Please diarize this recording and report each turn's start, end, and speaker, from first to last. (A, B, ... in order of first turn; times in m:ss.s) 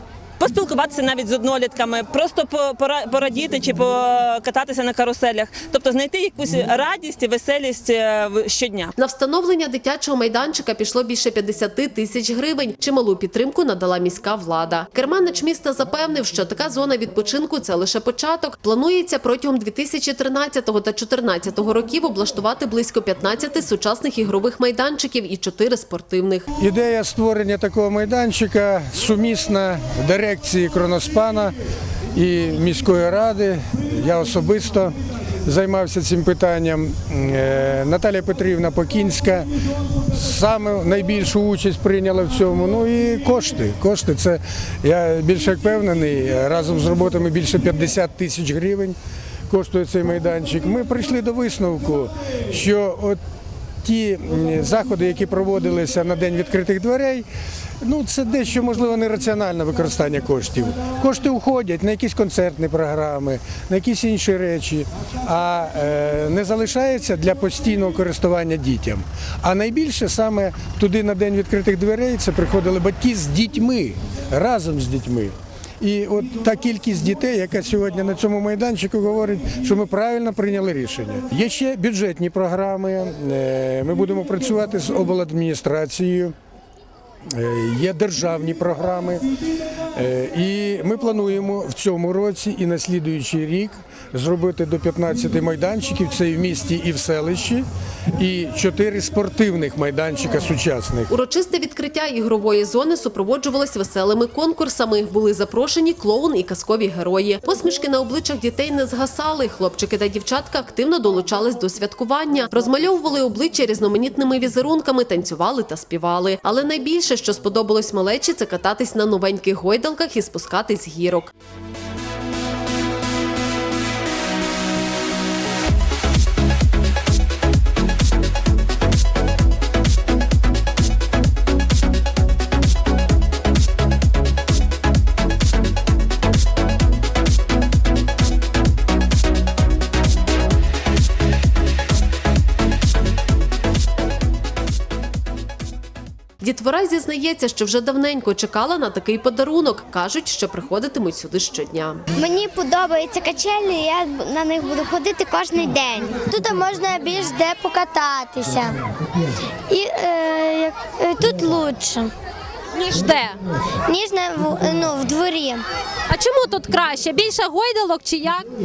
0:00.4-0:08.9 A
0:09.0-0:26.5 B
0:26.6-0:31.5 C
0:32.1-0:34.9 C
0:35.4-0:39.5 C
0:40.0-0:49.0 C
0:49.5-0:53.2 C
0:53.8-0:57.3 C
0:57.8-1:26.3 C
1:27.3-1:29.2 C
1:29.9-1:37.7 C
1:38.2-1:41.1 C
1:41.1-2:01.3 B
2:26.4-2:32.0 B
2:32.1-2:38.8 D
2:39.7-2:42.1 D
2:42.8-2:43.3 E
2:43.8-2:45.6 D
2:46.1-2:48.5 E